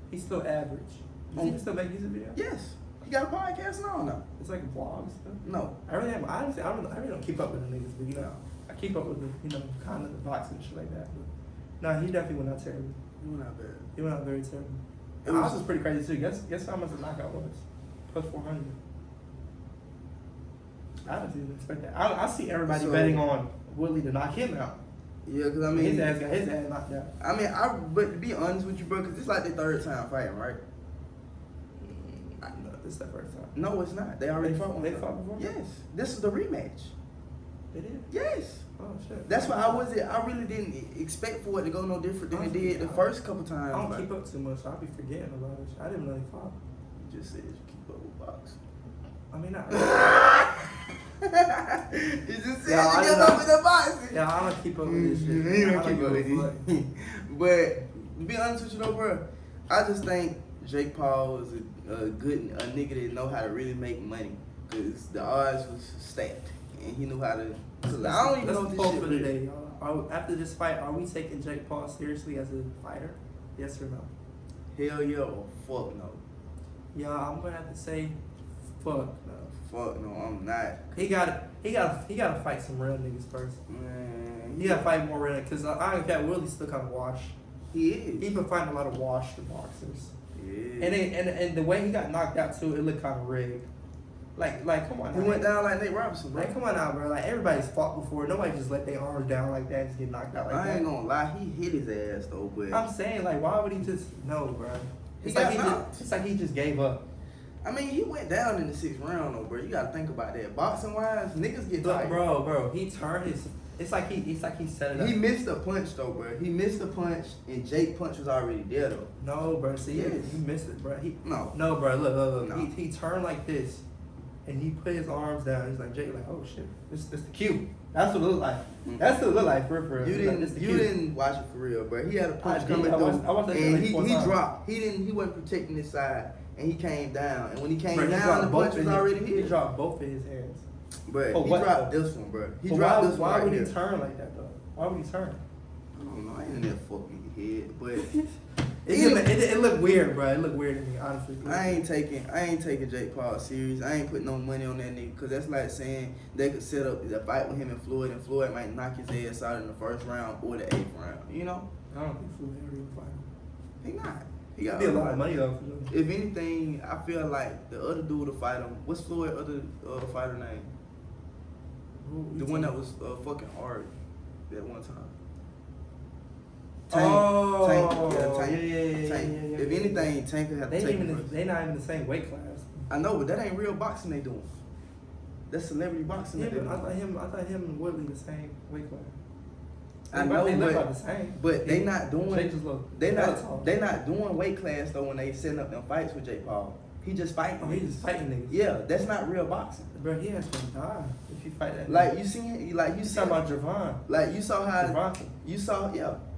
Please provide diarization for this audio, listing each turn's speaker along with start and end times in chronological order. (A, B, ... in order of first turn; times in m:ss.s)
0:00.1-0:02.4 A
0:01.4-0:01.6 B
0:02.4-0:04.2 B
0:04.4-0:11.3 A
0:05.4-0:05.8 B
0:08.2-0:08.4 B
0:11.8-0:13.0 A
0:13.2-0:13.9 B
0:14.0-0:18.8 A
0:15.2-0:15.7 B
0:21.1-0:24.8 A
0:22.7-0:23.2 B
0:25.3-0:26.2 B
0:25.7-0:27.1 A
0:27.2-0:30.6 B
0:31.8-0:33.6 A
0:33.6-0:36.9 B
0:34.4-0:35.5 A
0:37.7-0:38.1 A
0:38.1-0:38.6 B
0:38.8-0:39.8 A
0:39.3-0:44.1 B
0:42.3-0:43.1 A
0:43.7-0:46.6 A
0:47.0-0:48.6 B
0:49.3-0:50.6 A
0:49.7-0:50.6 B
0:51.2-0:54.2 B
0:52.6-0:53.5 A
0:54.1-0:56.6 A
0:54.8-1:09.3 B
1:07.8-1:14.1 A
1:14.7-1:16.2 B
1:16.9-1:18.2 A
1:18.8-1:19.5 A
1:19.5-1:21.0 B
1:20.9-1:23.6 A
1:23.7-1:24.9 B
1:24.6-1:27.4 A
1:27.7-1:28.4 B
1:28.2-1:30.1 A
1:30.4-1:31.0 B
1:30.8-1:33.7 A
1:34.4-1:35.5 A
1:35.1-1:36.5 B
1:36.4-1:40.9 A
1:40.5-1:42.8 B
1:42.7-1:47.0 A
1:45.2-1:46.0 B
1:47.6-1:52.2 B
1:51.8-1:55.2 A
1:54.9-1:59.1 B
1:59.2-2:03.8 A
1:59.9-2:00.4 B
2:01.2-2:01.6 B
2:02.4-2:02.7 B
2:04.4-2:10.9 A
2:10.0-2:19.6 B
2:12.4-2:14.4 A
2:17.9-2:20.6 A
2:21.1-2:23.7 B
2:21.3-2:21.9 A
2:22.7-2:25.4 A
2:26.0-2:28.1 B
2:28.0-2:28.3 A
2:28.8-2:31.8 A
2:28.9-2:29.3 B
2:31.4-2:41.7 B
2:41.9-2:43.3 A
2:43.8-2:45.3 B
2:44.7-2:45.9 A
2:45.9-2:50.7 B
2:52.0-2:52.8 A
2:52.4-2:53.9 B
2:54.5-2:55.1 B
2:56.9-3:00.1 A
2:56.9-3:01.3 B
3:00.7-3:02.8 A
3:02.9-3:04.5 B
3:05.5-3:06.9 B
3:06.4-3:09.2 A
3:10.1-3:19.9 B
3:10.1-3:13.7 A
3:17.6-3:18.6 A
3:19.9-3:22.1 A
3:21.9-3:23.4 B
3:23.0-3:24.0 A
3:24.1-3:26.2 B
3:24.8-3:25.3 A